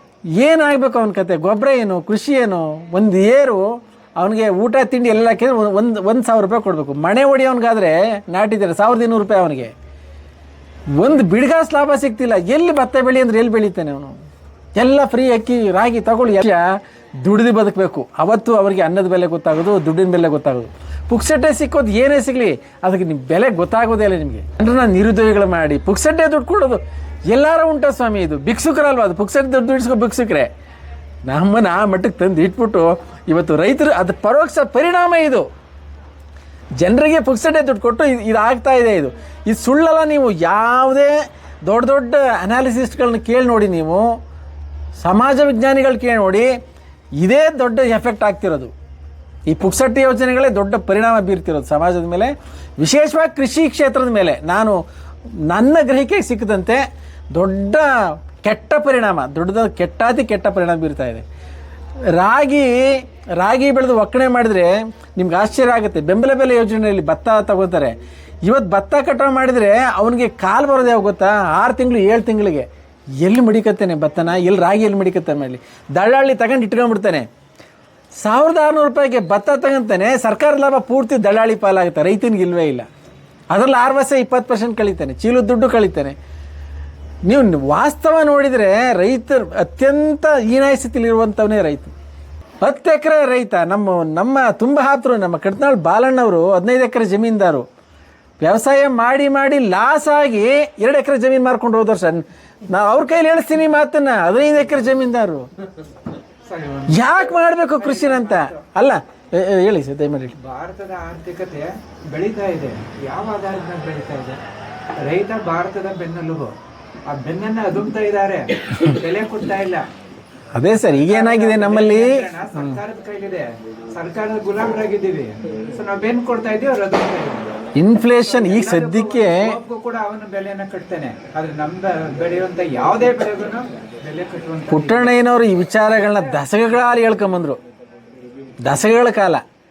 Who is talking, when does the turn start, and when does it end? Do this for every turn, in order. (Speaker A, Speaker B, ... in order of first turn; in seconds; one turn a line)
Speaker A: 0.4-9.7
Speaker A: 10.9-14.2
Speaker A: 14.8-30.5
Speaker A: 31.2-35.5
Speaker A: 36.8-44.1
Speaker A: 45.0-46.5
Speaker A: 47.2-48.7
Speaker A: 49.5-54.8
Speaker A: 55.5-61.2
Speaker A: 62.1-72.7
Speaker A: 73.2-77.3
Speaker A: 78.2-82.9
Speaker A: 83.5-86.2
Speaker A: 87.3-91.9
Speaker A: 92.6-97.7
Speaker A: 98.4-105.5
Speaker B: 106.5-107.0
Speaker A: 106.9-110.3
Speaker B: 107.8-108.6
Speaker B: 110.4-114.4
Speaker B: 115.0-116.5
Speaker B: 117.1-119.8
Speaker A: 120.5-122.8
Speaker B: 120.9-127.6
Speaker A: 127.8-129.6
Speaker B: 128.2-135.1
Speaker A: 134.7-137.6
Speaker B: 136.1-136.3
Speaker A: 138.6-139.4